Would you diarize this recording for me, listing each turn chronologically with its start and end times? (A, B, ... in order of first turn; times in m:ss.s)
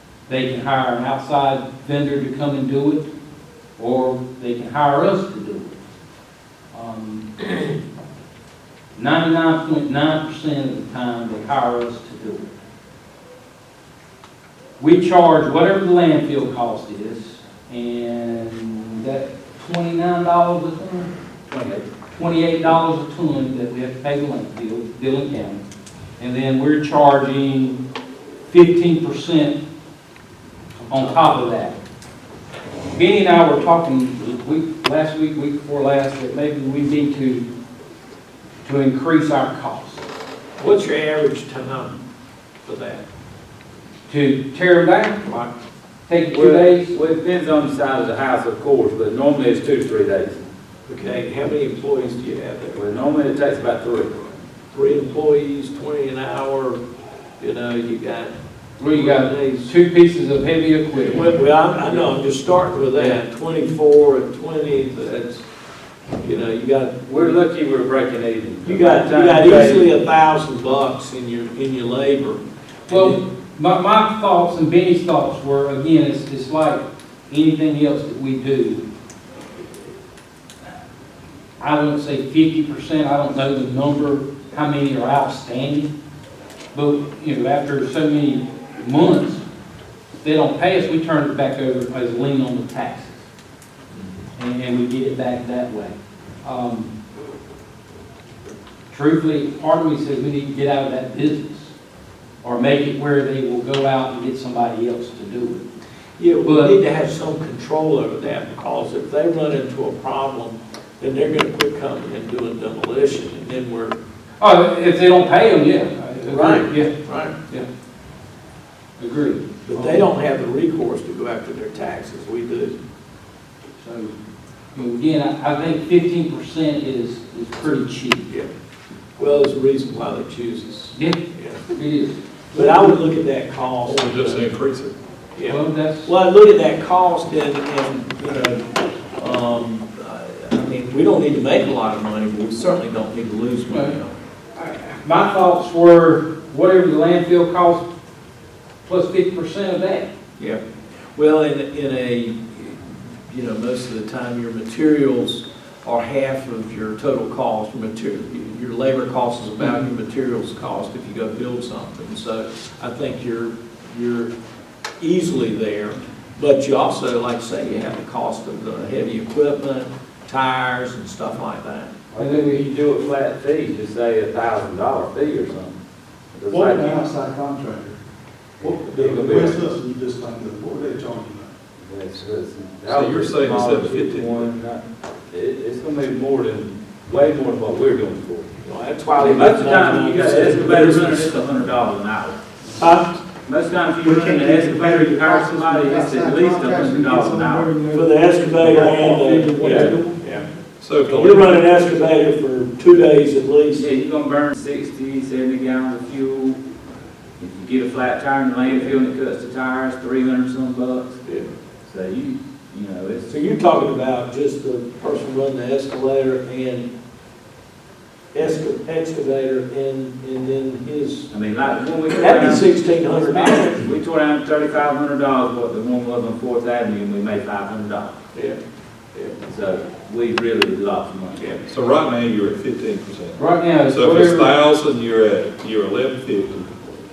0:00.3-0:03.1 A
0:03.8-0:05.8 A
0:06.7-0:07.7 A
0:09.0-0:12.5 A
0:14.8-0:21.1 A
0:21.5-0:21.9 B
0:22.1-0:25.6 A
0:26.2-0:27.8 A
0:28.5-0:29.6 A
0:30.8-0:31.8 A
0:30.9-0:31.4 C
0:32.9-0:37.5 A
0:38.6-0:40.0 A
0:40.6-0:42.0 C
0:42.6-0:43.0 C
0:44.1-0:45.2 A
0:45.2-0:45.5 C
0:46.1-0:46.9 A
0:46.3-0:50.4 B
0:50.9-0:52.8 C
0:52.7-0:54.2 B
0:54.7-0:56.8 C
0:57.4-0:59.7 C
0:58.8-1:02.1 A
1:01.0-1:05.4 C
1:06.2-1:07.3 C
1:07.1-1:09.9 B
1:08.6-1:13.2 C
1:12.9-1:18.8 A
1:21.6-1:25.9 A
1:26.7-1:29.4 A
1:30.2-1:33.3 A
1:34.4-1:36.9 A
1:38.9-1:41.7 A
1:42.4-1:45.6 A
1:46.2-1:54.0 C
1:46.4-1:46.8 A
1:54.4-1:56.9 A
1:56.2-1:57.4 C
1:59.0-2:00.0 A
1:59.6-2:02.8 C
2:03.8-2:04.1 A
2:04.7-2:08.3 A
2:09.2-2:11.6 C
2:11.7-2:12.2 A
2:12.5-2:14.5 C
2:13.8-2:15.0 D
2:15.4-2:18.6 C
2:15.5-2:16.1 A
2:19.2-2:24.2 C
2:23.7-2:24.0 A
2:24.6-2:27.8 A
2:28.8-2:30.1 A
2:31.1-2:44.3 C
2:45.0-2:51.9 C
2:52.1-2:55.8 B
2:52.2-2:52.6 A
2:56.4-2:57.0 B
2:56.5-2:58.0 E
2:58.6-2:59.6 B
2:58.6-3:01.5 E
3:01.8-3:08.5 B
3:02.9-3:04.5 D
3:08.6-3:11.3 C
3:09.2-3:12.4 B
3:12.8-3:13.1 C
3:13.4-3:17.8 B
3:14.0-3:20.2 E
3:17.9-3:20.5 C
3:19.6-3:20.0 B
3:20.8-3:21.6 D
3:21.1-3:23.9 C
3:23.8-3:26.6 B
3:27.4-3:31.1 B
3:28.6-3:29.0 C
3:31.2-3:31.5 C
3:31.9-3:33.3 B
3:33.3-3:36.9 C
3:38.3-3:41.3 C
3:41.3-3:48.2 B
3:42.1-3:43.9 C
3:48.3-3:48.6 C
3:49.4-3:51.5 B
3:51.4-3:51.6 C
3:51.7-3:56.8 D
3:53.4-3:54.5 A